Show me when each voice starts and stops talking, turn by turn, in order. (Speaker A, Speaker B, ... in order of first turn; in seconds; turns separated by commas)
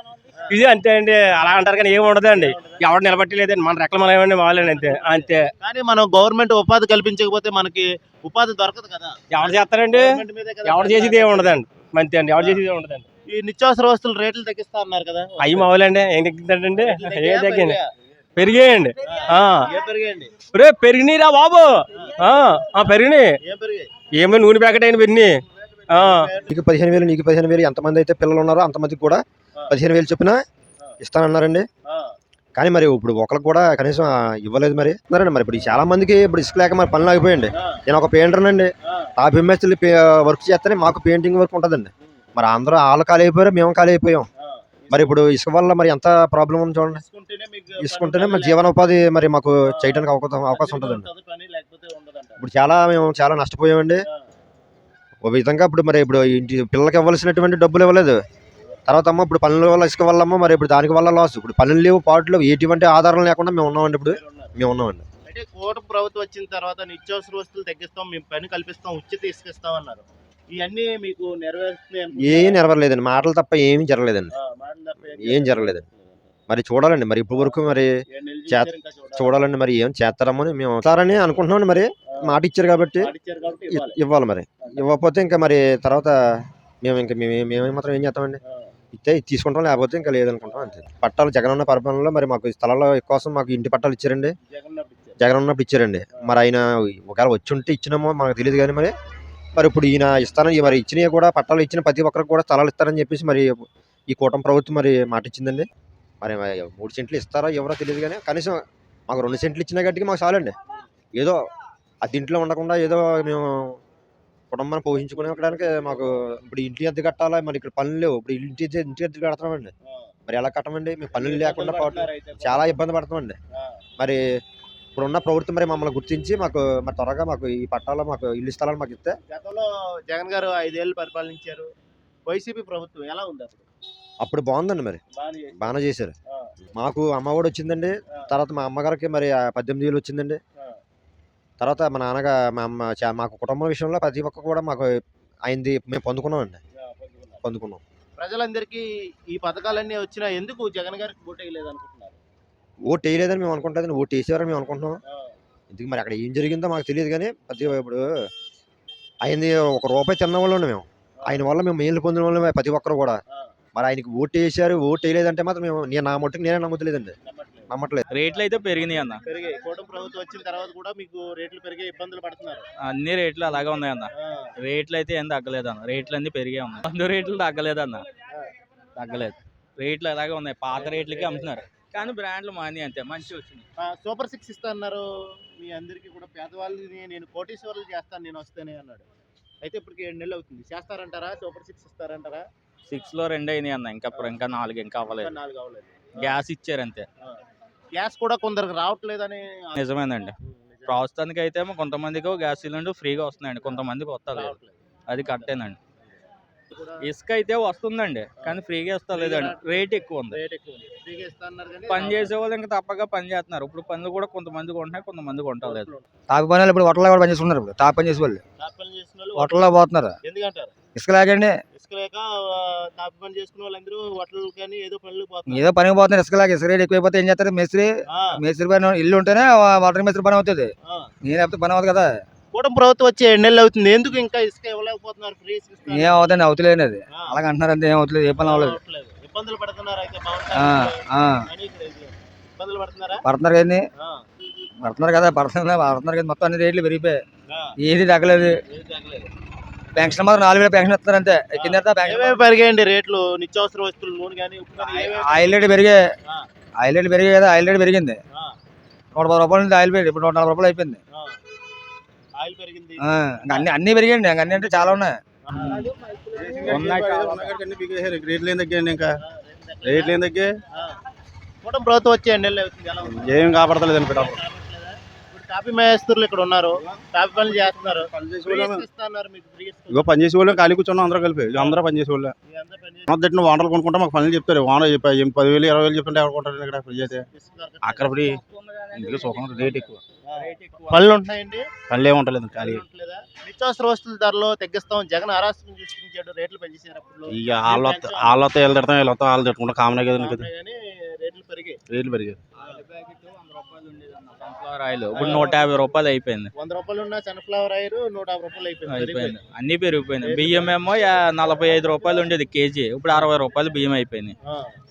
Speaker A: 0.5-5.5, Speaker B: 2.2-2.8, Speaker B: 4.7-11.6, Speaker A: 9.3-13.1, Speaker B: 13.3-15.7, Speaker A: 15.4-17.8, Speaker B: 16.8-17.9, Speaker A: 18.4-19.6, Speaker B: 19.0-20.3, Speaker A: 20.5-23.3, Speaker B: 23.4-23.9, Speaker A: 24.2-25.3, Speaker A: 25.9-26.2, Speaker B: 25.9-26.5, Speaker C: 26.5-30.4, Speaker C: 31.0-31.6, Speaker B: 31.9-32.1, Speaker C: 32.5-44.3, Speaker B: 37.5-37.8, Speaker B: 44.4-45.1, Speaker C: 44.9-47.0, Speaker B: 46.9-48.7, Speaker C: 47.8-51.1, Speaker B: 49.7-52.4, Speaker C: 52.4-54.0, Speaker C: 55.2-58.2, Speaker C: 58.9-65.0, Speaker B: 64.1-64.5, Speaker B: 65.2-72.6, Speaker C: 72.2-74.3, Speaker B: 74.3-76.3, Speaker C: 75.2-75.8, Speaker C: 76.5-77.9, Speaker B: 77.3-79.4, Speaker C: 78.5-83.1, Speaker B: 83.0-84.0, Speaker C: 83.7-88.4, Speaker C: 88.9-94.3, Speaker B: 94.5-95.2, Speaker C: 95.2-98.9, Speaker C: 99.5-105.7, Speaker C: 106.2-110.5, Speaker C: 112.0-113.8, Speaker C: 114.5-119.7, Speaker C: 120.3-123.4, Speaker B: 121.1-122.7, Speaker C: 125.0-129.2, Speaker B: 129.3-131.7, Speaker B: 132.3-133.7, Speaker C: 134.2-135.0, Speaker B: 135.2-135.7, Speaker C: 135.6-136.1, Speaker C: 136.8-140.4, Speaker C: 141.6-146.6, Speaker B: 146.8-147.4, Speaker C: 147.4-147.8, Speaker B: 148.2-152.2, Speaker C: 152.9-155.0, Speaker C: 155.7-158.0, Speaker C: 159.2-163.2, Speaker B: 161.2-161.5, Speaker C: 163.7-167.1, Speaker B: 167.2-167.7, Speaker C: 167.7-168.0, Speaker D: 168.1-169.2, Speaker B: 169.2-172.6, Speaker D: 172.8-178.1, Speaker B: 174.2-174.5, Speaker D: 178.9-183.6, Speaker B: 180.7-181.5, Speaker B: 183.8-185.1, Speaker B: 185.6-189.0, Speaker B: 189.6-192.4, Speaker D: 192.9-195.3, Speaker B: 195.2-196.3, Speaker D: 196.2-197.1, Speaker B: 197.9-199.8, Speaker D: 199.8-200.3, Speaker B: 200.4-201.0, Speaker D: 200.9-204.6, Speaker B: 204.3-204.7, Speaker D: 205.1-205.8, Speaker B: 205.3-205.5, Speaker B: 206.7-207.0, Speaker D: 207.0-210.4, Speaker B: 209.1-212.3, Speaker D: 211.9-215.9, Speaker B: 215.6-216.0, Speaker E: 216.3-218.4, Speaker B: 218.6-219.6, Speaker E: 219.3-220.1, Speaker B: 220.2-220.7, Speaker E: 220.9-221.6, Speaker B: 221.7-225.6, Speaker E: 225.5-230.7, Speaker E: 231.2-232.1, Speaker B: 232.5-236.2, Speaker E: 235.9-238.8, Speaker B: 237.1-237.4, Speaker B: 238.4-243.2, Speaker E: 240.5-241.4, Speaker E: 243.2-243.8, Speaker B: 244.0-244.2, Speaker E: 244.8-247.2, Speaker E: 247.8-248.6, Speaker B: 248.7-249.3, Speaker E: 249.9-252.3, Speaker B: 251.5-255.5, Speaker E: 254.8-256.0, Speaker E: 256.8-258.2, Speaker E: 259.1-261.0, Speaker B: 262.4-263.0, Speaker E: 263.0-265.1, Speaker B: 264.5-265.8, Speaker D: 265.6-265.9, Speaker F: 266.3-269.1, Speaker D: 266.6-267.5, Speaker B: 269.2-270.2, Speaker F: 269.8-270.5, Speaker B: 271.6-280.2, Speaker F: 273.1-274.4, Speaker F: 277.4-278.8, Speaker F: 279.9-282.3, Speaker B: 281.5-281.8, Speaker B: 282.5-283.1, Speaker F: 283.1-287.2, Speaker B: 287.3-288.2, Speaker F: 287.8-288.4, Speaker D: 288.1-291.1, Speaker F: 288.9-290.0, Speaker B: 290.2-291.6, Speaker F: 291.9-292.8, Speaker B: 292.5-298.4, Speaker F: 297.3-300.5, Speaker B: 300.1-301.8, Speaker F: 301.9-302.4, Speaker D: 302.6-306.5, Speaker B: 305.1-305.6, Speaker B: 306.6-309.4, Speaker D: 308.9-314.3, Speaker B: 310.2-310.7